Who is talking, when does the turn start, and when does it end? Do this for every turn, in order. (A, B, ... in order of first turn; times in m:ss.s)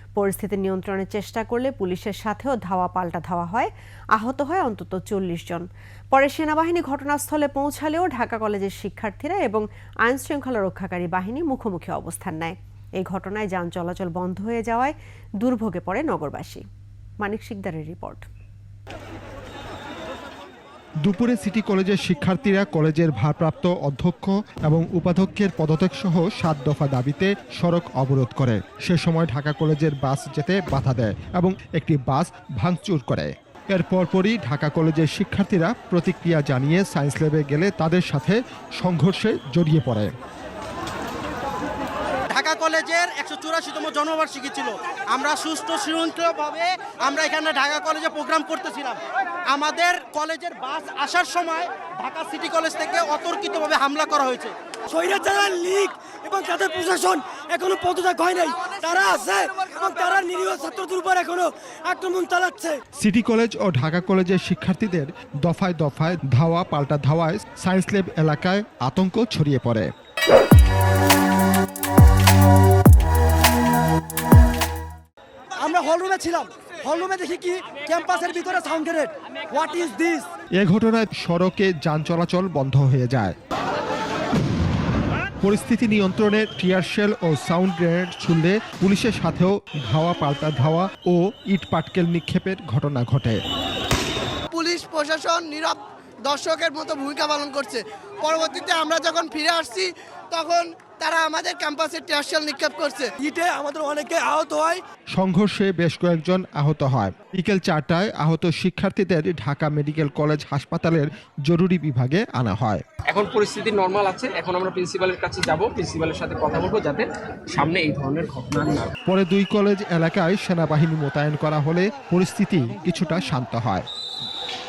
0:00.2-0:16.6 A
0:17.2-0:18.3 A
0:21.0-0:40.1 B
0:42.3-0:49.0 C
0:49.5-0:54.5 C
0:54.9-1:02.8 D
1:03.0-1:09.9 B
1:15.6-1:20.3 D
1:20.6-1:23.3 B
1:25.4-1:33.4 B
1:34.5-1:43.1 E
1:43.2-1:44.8 D
1:45.1-1:52.8 B
1:53.1-1:58.9 F
1:59.0-2:03.8 B